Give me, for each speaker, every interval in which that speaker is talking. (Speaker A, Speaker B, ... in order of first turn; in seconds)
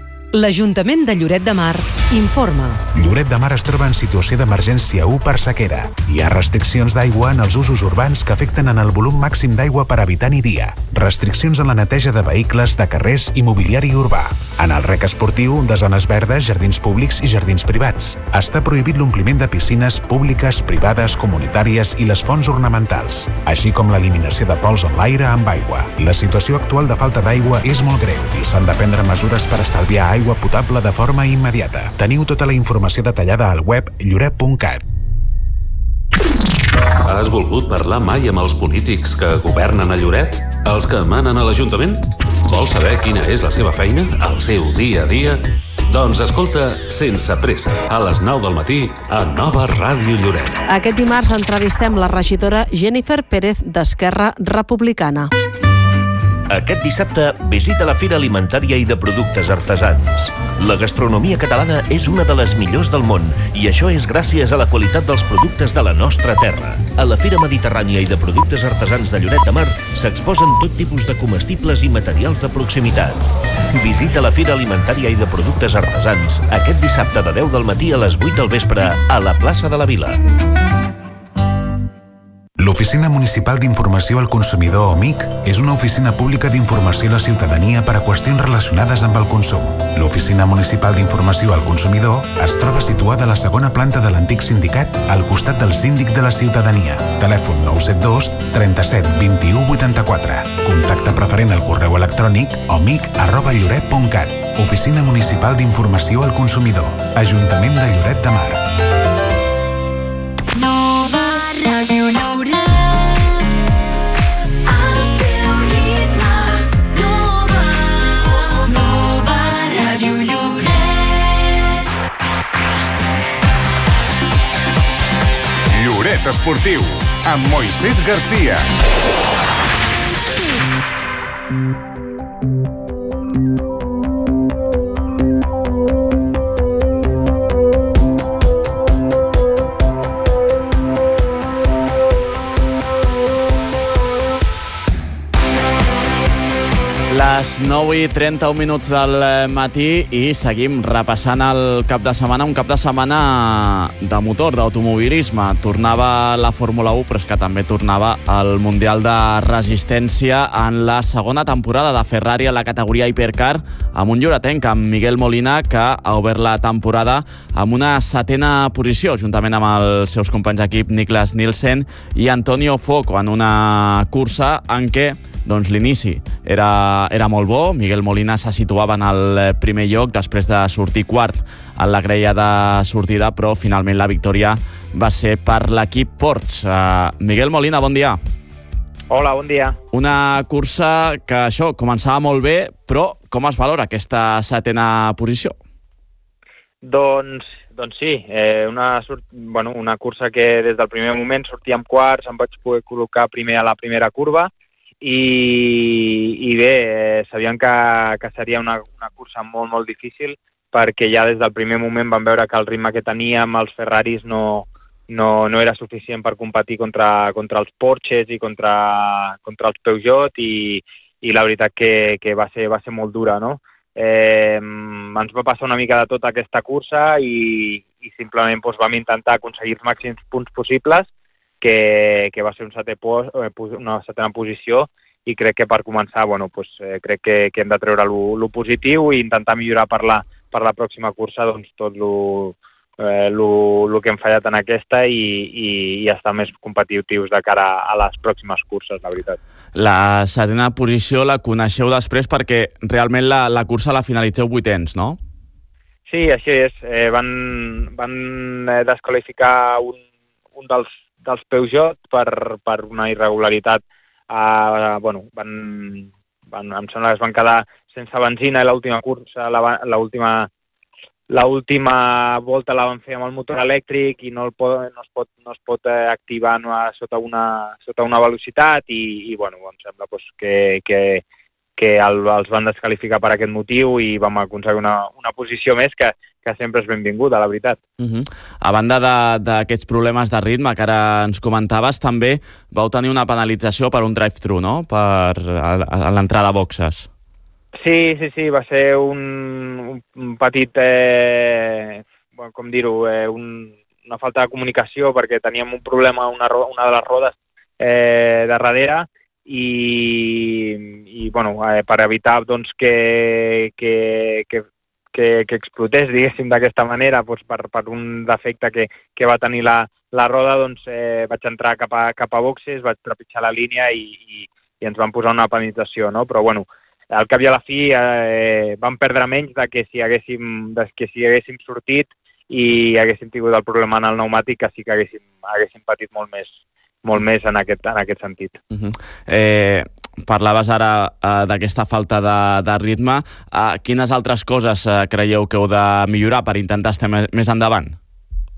Speaker A: 0.3-2.8
Speaker B: 2.9-34.8, 82.6-108.7
Speaker C: 37.1-50.6
Speaker D: 50.7-55.3, 111.4-112.8, 114.8-120.9
Speaker E: 56.5-80.2
Speaker F: 125.7-128.7
Speaker G: 147.1-188.2, 189.9-195.6, 249.8-255.2, 288.0-297.1, 338.7-348.0
Speaker H: 189.1-189.8, 196.8-231.1, 231.6-249.4, 256.1-260.0, 260.5-270.5, 271.3-281.2, 281.8-287.8, 297.8-338.6